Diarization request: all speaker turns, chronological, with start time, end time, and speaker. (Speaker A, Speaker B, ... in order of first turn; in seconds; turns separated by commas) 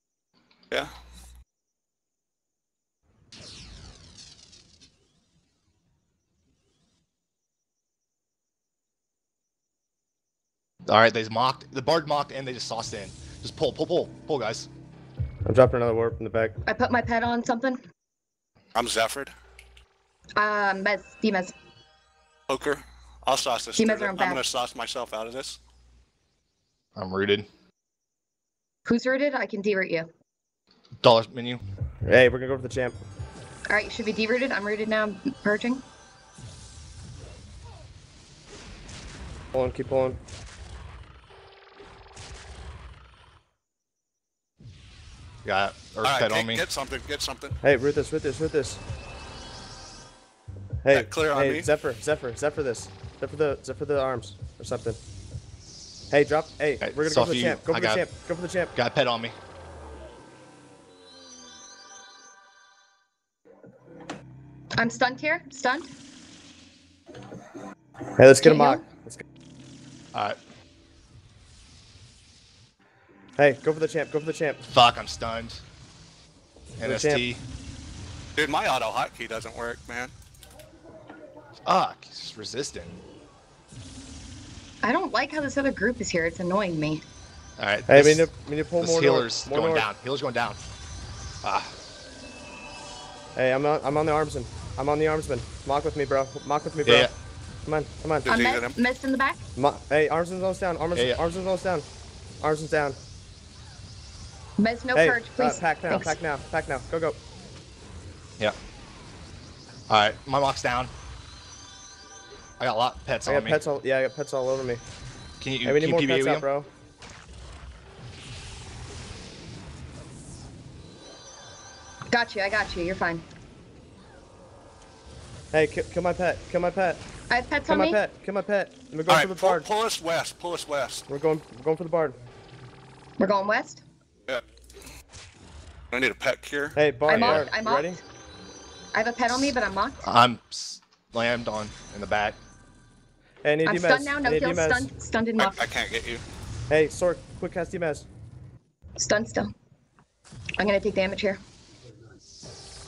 Speaker A: 10.8-14.7, Speaker B: 15.4-16.6, Speaker C: 16.6-17.8, Speaker D: 18.7-19.3, Speaker C: 20.4-21.5, Speaker D: 22.5-25.6, Speaker C: 23.8-24.4, Speaker A: 26.9-27.5, Speaker C: 28.9-30.1, Speaker A: 31.0-31.6, Speaker B: 32.0-33.0, Speaker C: 33.7-35.8, Speaker B: 39.5-40.2, Speaker A: 45.4-46.6, Speaker D: 46.0-47.5, Speaker B: 47.6-48.8, Speaker B: 50.8-55.0, Speaker D: 50.9-51.7, Speaker B: 56.1-58.7, Speaker A: 56.8-58.1, Speaker A: 58.7-59.3, Speaker C: 64.8-65.9, Speaker B: 68.2-69.2, Speaker C: 68.3-68.8, Speaker B: 73.4-74.6, Speaker A: 74.7-75.6, Speaker A: 76.8-77.4, Speaker B: 76.8-77.2, Speaker D: 78.4-80.1, Speaker A: 81.6-83.0, Speaker C: 84.8-87.0, Speaker A: 87.6-90.6, Speaker B: 87.9-89.9, Speaker A: 91.4-91.7, Speaker B: 93.3-97.1, Speaker A: 96.8-97.1, Speaker B: 97.7-98.3, Speaker D: 98.2-98.7, Speaker C: 98.3-99.4, Speaker B: 99.5-101.8, Speaker A: 100.9-101.2, Speaker B: 102.4-103.0, Speaker C: 104.6-106.2, Speaker B: 104.9-107.2, Speaker A: 109.9-110.9, Speaker A: 112.6-113.6, Speaker B: 113.2-114.8, Speaker A: 115.4-116.5, Speaker B: 115.6-116.7, Speaker C: 122.1-123.2, Speaker B: 125.5-127.0, Speaker C: 127.3-128.0, Speaker B: 127.7-129.7, Speaker D: 129.1-131.0, Speaker B: 131.1-132.2, Speaker C: 133.2-133.8, Speaker D: 135.9-136.8, Speaker B: 136.8-138.0, Speaker C: 137.1-138.0, Speaker A: 137.1-137.5, Speaker C: 138.9-140.0, Speaker A: 140.0-142.4, Speaker B: 143.4-144.9, Speaker C: 143.6-145.7, Speaker D: 145.4-146.2, Speaker B: 146.7-148.1, Speaker C: 149.0-149.5, Speaker C: 150.6-151.4